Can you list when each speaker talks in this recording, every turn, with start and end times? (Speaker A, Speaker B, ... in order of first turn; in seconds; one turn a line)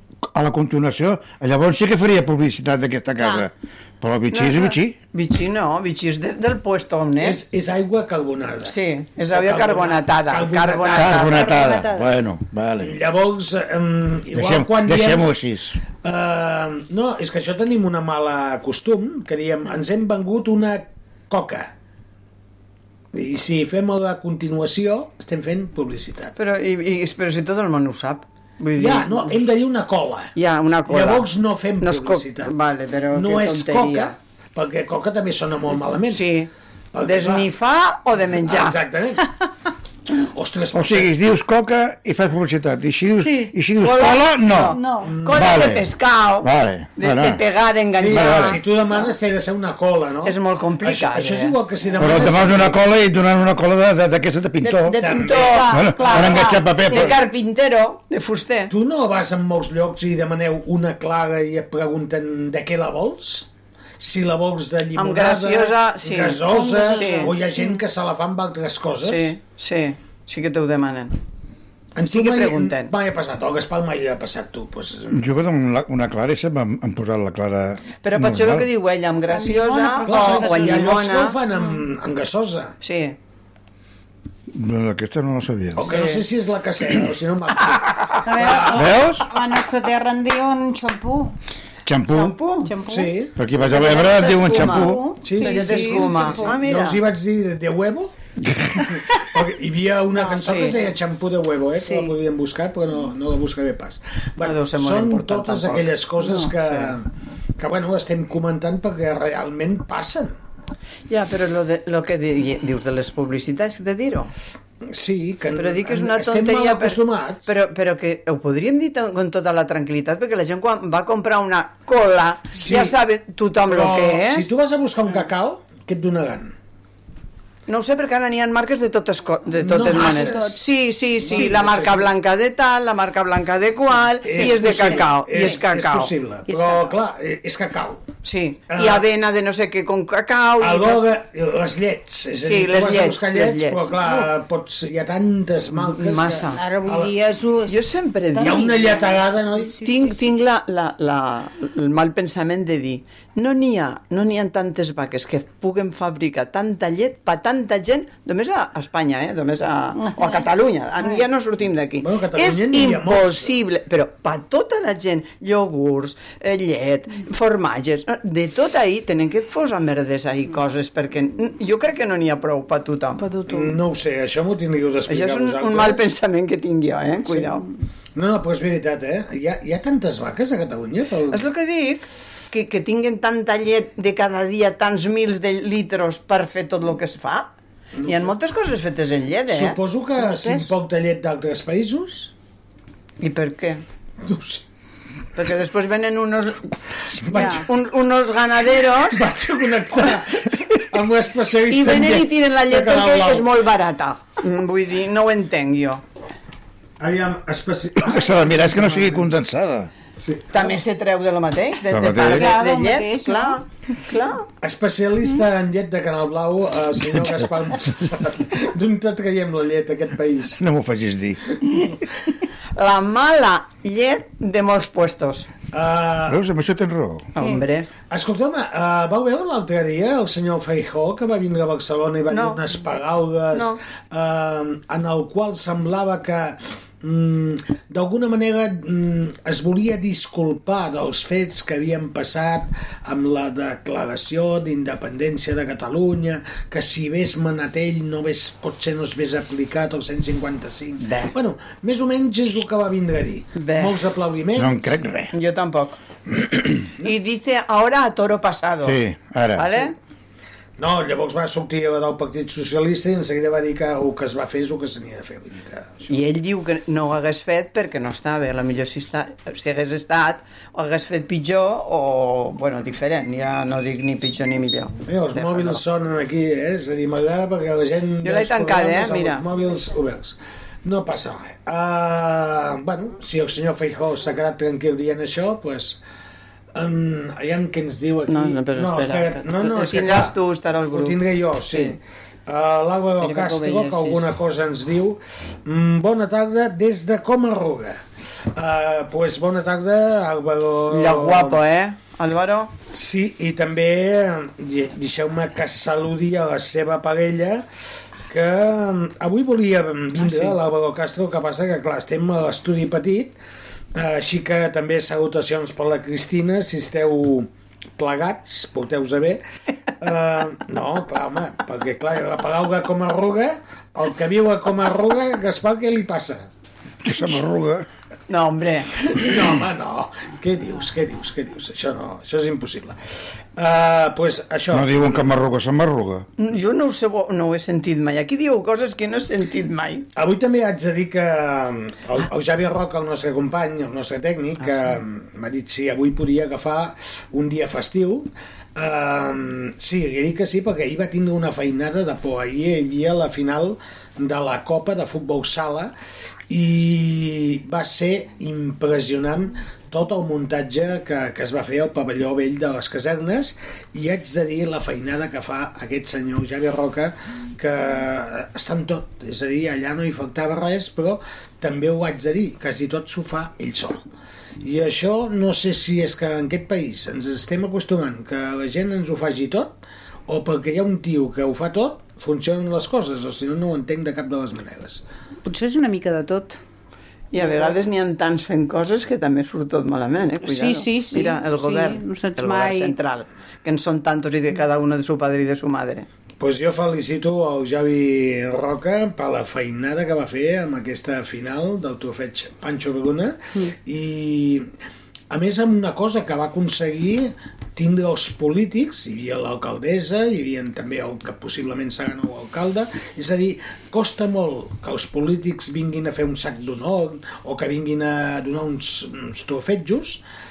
Speaker A: 0.3-5.0
Speaker B: 3.2-3.5
Speaker C: 4.3-7.4
Speaker D: 7.2-8.8
Speaker C: 8.6-11.7
Speaker D: 9.3-11.5
Speaker A: 10.9-13.0
Speaker B: 11.3-12.1
Speaker D: 12.8-15.3
Speaker A: 14.3-15.8
Speaker D: 16.0-21.7
Speaker D: 23.1-26.3
Speaker C: 26.4-29.4
Speaker D: 28.8-30.4
Speaker C: 30.4-31.3
Speaker D: 30.9-32.5
Speaker C: 31.8-34.1
Speaker D: 33.1-36.3
Speaker C: 36.1-36.5
Speaker D: 36.9-37.5
Speaker C: 37.0-38.8
Speaker D: 38.4-39.3
Speaker D: 40.2-41.1
Speaker A: 40.7-44.8
Speaker B: 43.2-43.5
Speaker C: 43.8-49.0
Speaker B: 44.7-45.2
Speaker D: 45.0-45.7
Speaker A: 45.3-47.4
Speaker D: 47.9-52.8
Speaker A: 48.1-48.6
Speaker C: 50.2-51.6
Speaker A: 52.0-57.2
Speaker C: 54.6-58.7
Speaker D: 55.0-55.7
Speaker B: 55.4-57.1
Speaker D: 58.7-63.5
Speaker D: 64.0-69.3
Speaker C: 65.0-67.3
Speaker B: 66.7-67.3
Speaker C: 69.0-71.2
Speaker D: 72.0-75.3
Speaker C: 72.1-72.9
Speaker A: 75.1-78.7
Speaker C: 78.0-81.4
Speaker B: 79.3-80.9
Speaker D: 80.1-82.8
Speaker C: 82.8-83.2
Speaker A: 84.5-85.9
Speaker D: 85.8-88.8
Speaker C: 85.8-86.2
Speaker B: 88.2-91.3
Speaker A: 88.7-89.3
Speaker A: 91.9-92.3
Speaker C: 92.1-92.7
Speaker B: 92.6-93.2
Speaker D: 92.8-93.5
Speaker A: 93.4-95.1
Speaker C: 93.6-97.0
Speaker B: 93.8-96.6
Speaker D: 95.2-98.1
Speaker A: 98.5-98.8
Speaker D: 99.2-107.1
Speaker B: 100.2-100.7
Speaker C: 100.4-100.8
Speaker B: 101.8-102.1
Speaker C: 104.4-106.0
Speaker D: 107.6-110.4
Speaker C: 111.1-114.3
Speaker D: 114.8-117.5
Speaker C: 115.6-124.5
Speaker D: 122.5-123.0
Speaker D: 123.6-126.5
Speaker C: 127.7-136.1
Speaker D: 129.6-130.6
Speaker B: 129.9-130.6
Speaker D: 131.2-132.1
Speaker B: 131.3-131.6
Speaker D: 134.2-138.1
Speaker B: 134.2-135.5
Speaker B: 136.5-137.0
Speaker C: 138.2-141.1
Speaker D: 138.7-139.1
Speaker D: 140.6-147.2
Speaker C: 142.4-143.9
Speaker C: 145.8-146.7
Speaker B: 146.6-147.8
Speaker C: 147.7-149.1
Speaker B: 148.3-150.2
Speaker D: 148.4-149.8
Speaker C: 149.8-173.4
Speaker B: 160.1-160.4
Speaker D: 162.0-163.6
Speaker B: 173.2-173.7
Speaker D: 173.5-176.1
Speaker C: 175.1-177.7
Speaker D: 178.2-181.4
Speaker C: 181.3-187.5
Speaker D: 188.0-188.3
Speaker C: 188.1-189.8
Speaker D: 189.5-192.3
Speaker B: 190.2-190.7
Speaker C: 193.2-193.8
Speaker D: 194.2-194.6
Speaker C: 195.4-196.7
Speaker D: 197.2-197.7
Speaker B: 197.3-197.6
Speaker C: 197.3-199.2
Speaker D: 199.0-203.5
Speaker C: 201.7-206.0
Speaker D: 207.0-209.3
Speaker A: 208.0-209.9
Speaker D: 210.2-210.8
Speaker C: 210.5-214.5
Speaker A: 211.9-212.5
Speaker B: 212.3-213.6
Speaker D: 214.6-220.6
Speaker A: 220.6-221.5
Speaker C: 222.8-225.5
Speaker D: 225.7-226.4
Speaker A: 226.3-227.3
Speaker C: 227.3-227.9
Speaker D: 228.1-255.0
Speaker C: 232.3-232.6
Speaker C: 233.5-233.8
Speaker C: 251.0-251.3
Speaker C: 253.6-254.0
Speaker A: 254.6-255.3
Speaker C: 255.3-256.0
Speaker C: 257.0-259.0
Speaker A: 258.8-259.9
Speaker C: 259.6-259.9
Speaker D: 260.8-266.1
Speaker C: 266.1-275.8
Speaker D: 275.1-286.0
Speaker C: 278.2-279.4
Speaker D: 286.7-290.4
Speaker C: 288.3-291.2
Speaker D: 290.9-301.6
Speaker C: 291.7-292.0
Speaker C: 293.2-294.3
Speaker C: 300.9-302.7
Speaker D: 302.9-307.6
Speaker D: 308.3-313.4
Speaker D: 313.9-319.4
Speaker D: 320.0-326.5
Speaker A: 327.0-327.9
Speaker C: 328.3-329.3
Speaker D: 329.1-333.0
Speaker D: 333.6-335.3
Speaker A: 334.7-336.3
Speaker C: 336.4-340.1
Speaker D: 340.1-355.9
Speaker D: 356.5-374.1
Speaker D: 374.6-385.0
Speaker B: 385.4-386.6
Speaker C: 387.3-396.1
Speaker B: 390.4-393.0
Speaker D: 396.4-404.7
Speaker D: 405.3-420.2